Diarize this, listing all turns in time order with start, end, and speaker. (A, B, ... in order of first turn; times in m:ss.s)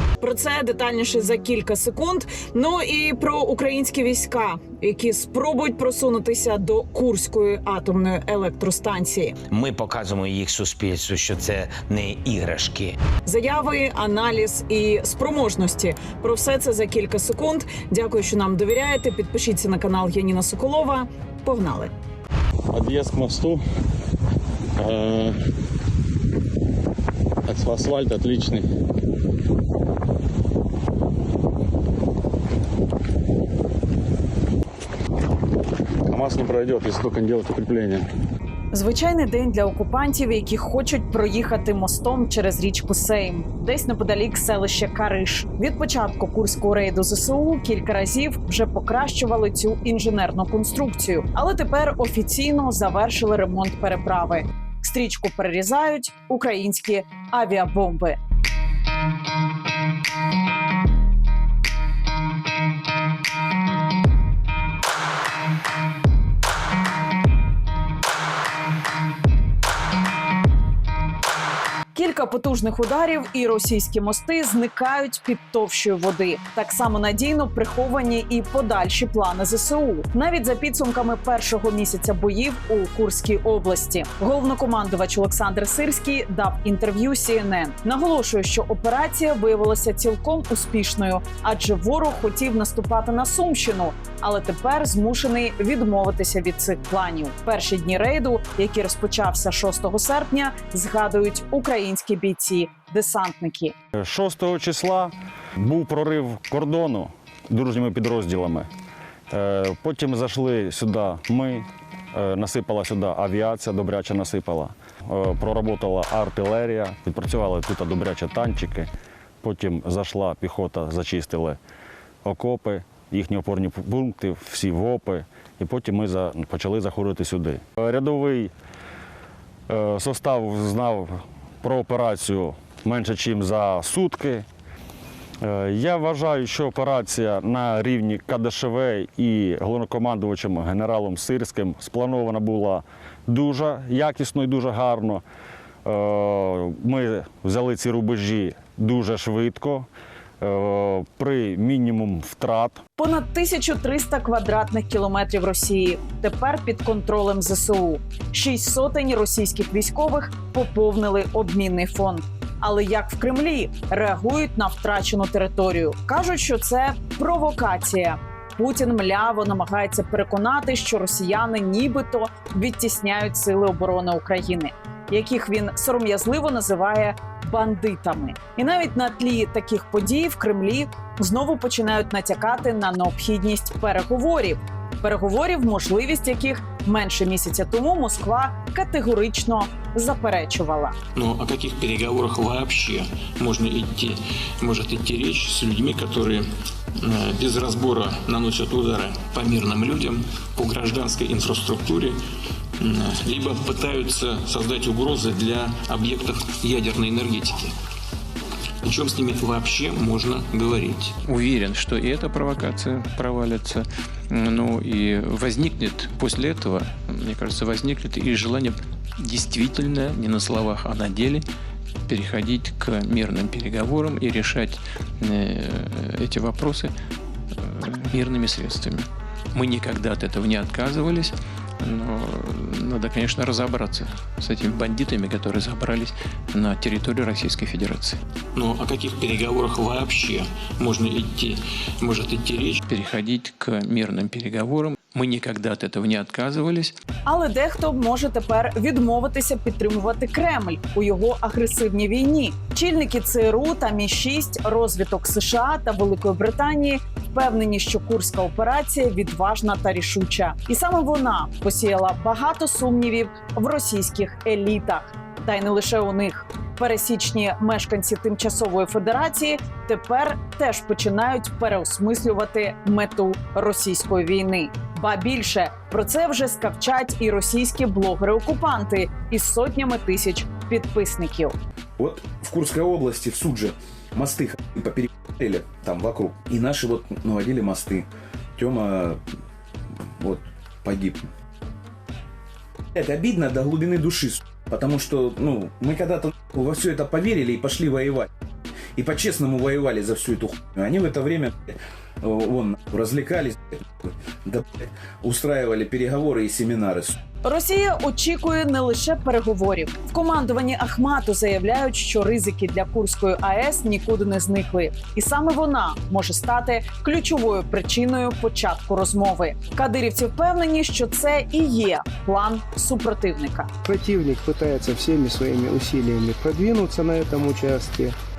0:00.2-0:09.4 A
0:09.5-0:13.0 B
0:13.3-0:21.9 A
0:38.7-0:58.2 A
1:11.9-1:43.7 A
1:44.0-1:48.7 C
1:49.3-1:58.9 C
1:59.4-2:01.6 C
2:02.2-2:08.5 C
2:09.7-2:14.4 C
2:15.4-2:25.2 C
2:25.8-2:29.9 C
2:30.4-2:32.8 C
2:33.0-3:11.0 A
3:11.2-3:16.4 D
3:17.0-3:22.2 D
3:22.8-3:27.7 D
3:28.8-3:31.1 D
3:31.2-3:41.5 E
3:42.1-3:46.9 E
3:47.6-3:58.2 E
3:58.6-4:02.8 D
4:02.9-4:06.9 E
4:07.3-4:41.6 A
4:42.0-4:49.2 F
4:50.2-4:51.2 F
4:53.0-4:58.3 F
4:59.0-5:07.2 F
5:07.4-5:23.7 A
5:23.8-5:28.2 G